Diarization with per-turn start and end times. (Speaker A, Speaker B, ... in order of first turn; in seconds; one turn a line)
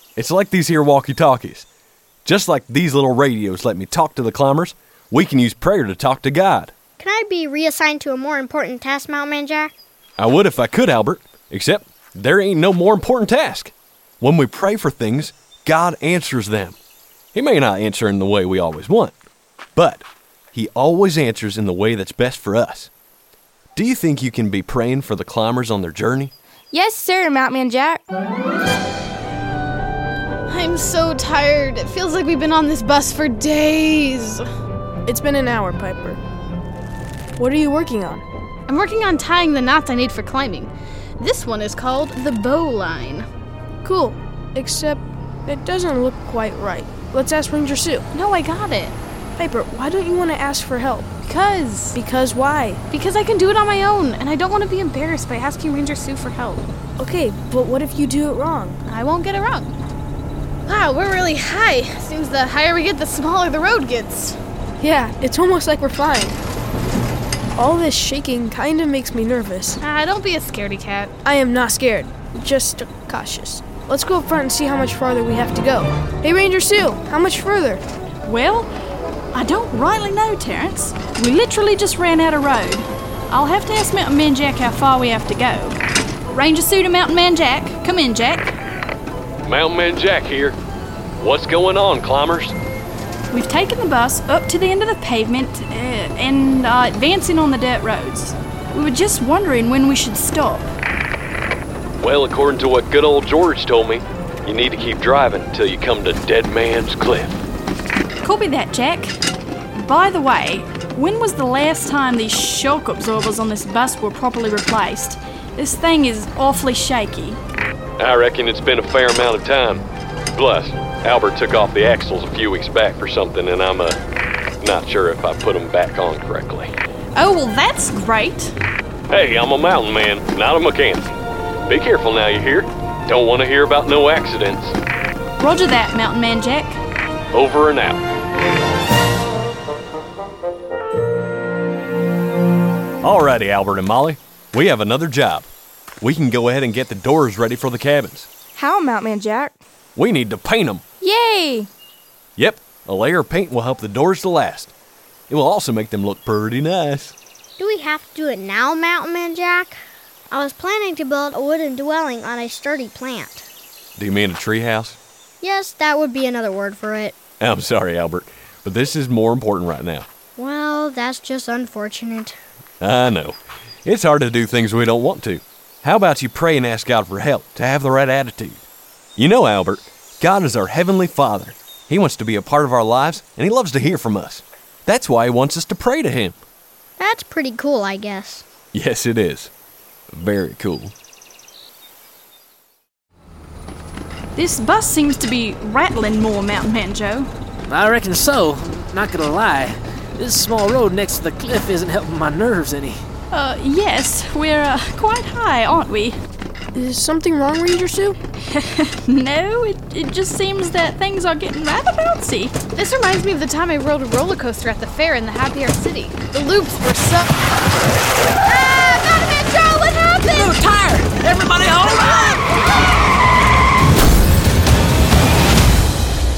Speaker A: 0.2-1.7
Speaker A: 2.2-6.7
Speaker B: 7.0-9.7
Speaker A: 10.2-16.8
Speaker A: 17.3-19.1
Speaker A: 19.8-22.9
Speaker A: 23.8-26.3
Speaker C: 26.7-28.0
Speaker D: 30.5-34.5
Speaker E: 35.1-36.2
Speaker E: 37.4-38.2
Speaker D: 38.7-43.3
Speaker E: 43.8-48.0
Speaker D: 48.1-49.0
Speaker E: 49.4-51.1
Speaker D: 51.2-52.0
Speaker E: 52.0-52.8
Speaker D: 52.9-56.6
Speaker E: 57.0-58.8
Speaker D: 58.9-59.7
Speaker D: 60.7-64.4
Speaker E: 64.8-66.4
Speaker E: 67.6-69.8
Speaker D: 69.8-71.1
Speaker E: 71.2-77.8
Speaker F: 78.2-78.7
Speaker F: 79.3-85.8
Speaker F: 86.3-88.5
Speaker A: 89.4-90.6
Speaker A: 91.2-92.6
Speaker F: 93.3-100.7
Speaker A: 102.0-107.4
Speaker F: 108.2-109.2
Speaker F: 109.8-117.4
Speaker A: 118.0-124.0
Speaker A: 124.6-126.7
Speaker F: 127.2-128.5
Speaker A: 129.1-134.8
Speaker F: 135.4-136.8
Speaker A: 137.3-138.0
Speaker A: 143.0-145.5
Speaker A: 146.0-148.3
Speaker C: 148.6-149.6
Speaker A: 150.0-150.8
Speaker C: 151.0-151.7
Speaker A: 152.4-154.7
Speaker A: 155.3-157.2
Speaker B: 157.6-159.8
Speaker B: 160.3-163.4
Speaker A: 164.0-165.0
Speaker B: 165.4-167.2
Speaker A: 167.4-170.1
Speaker B: 170.4-172.4
Speaker A: 172.8-178.6
Speaker A: 179.2-186.4
Speaker B: 187.0-188.4
Speaker A: 188.7-189.5
Speaker A: 190.1-190.9
Speaker F: 194.3-197.3
Speaker G: 197.7-203.0
Speaker F: 203.3-206.2
Speaker E: 206.8-208.2
Speaker F: 208.5-212.6
Speaker D: 212.8-217.5
Speaker D: 218.4-220.6
Speaker G: 220.3-222.5